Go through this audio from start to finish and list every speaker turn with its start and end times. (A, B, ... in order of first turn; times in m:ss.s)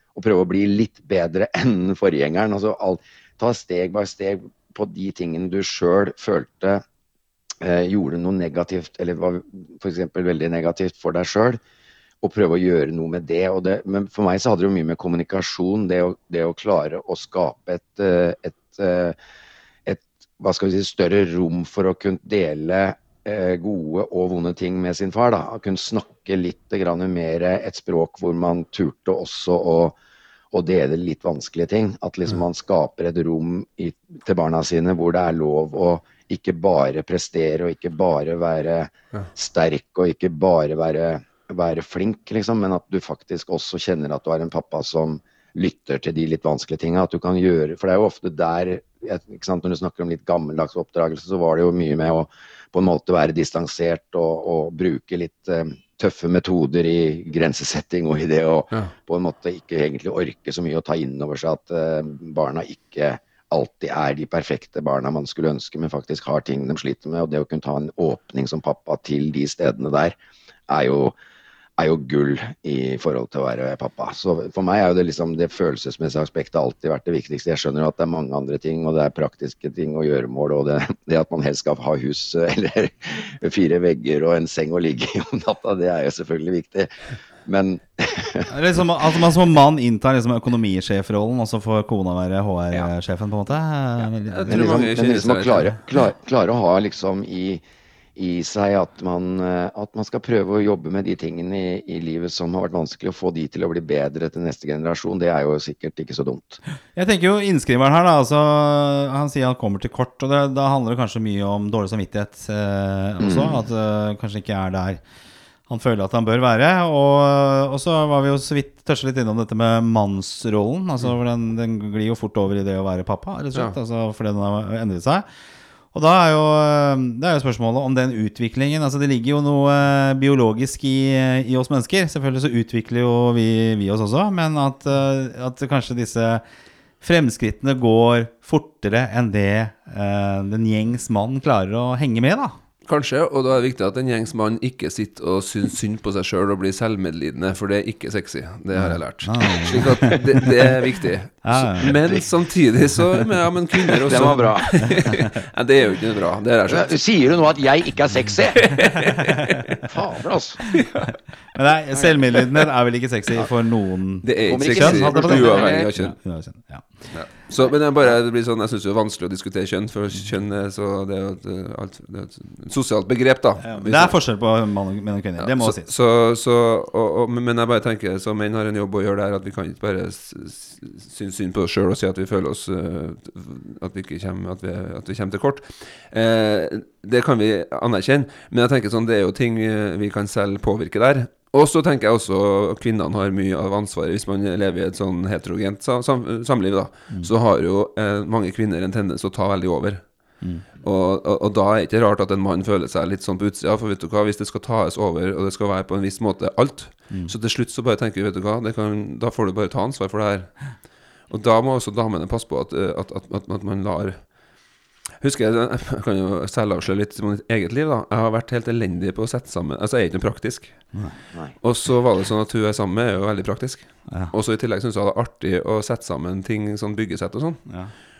0:00.1-0:06.8 A
0:07.6-0:11.6 A
0:12.2-0:19.2 A
0:19.8-0:30.0 A
0:30.5-1:10.2 A
1:10.7-1:11.2 A
1:11.8-1:26.9 A
1:27.4-1:28.5 A
1:28.5-1:34.9 B
1:34.3-1:35.8 C
1:34.5-1:37.6 A
1:38.2-1:46.6 A
1:46.9-1:55.0 B
1:53.2-1:53.6 A
1:55.7-2:05.2 B
2:05.9-2:16.4 B
2:17.0-2:22.6 B
2:22.8-2:37.0 C
2:28.7-2:30.8 B
2:31.4-2:32.1 B
2:34.0-2:34.9 A
2:34.2-2:35.1 B
2:36.7-2:38.8 A
2:38.6-2:39.8 C
2:39.8-2:40.6 A
2:40.7-2:41.2 C
2:41.5-2:46.9 B
2:44.2-2:46.1 C
2:44.4-2:45.9 A
2:47.1-2:54.2 C
2:53.6-2:55.9 B
2:55.4-3:34.4 C
3:35.2-3:40.9 C
3:41.6-3:47.6 C
3:47.7-3:47.9 B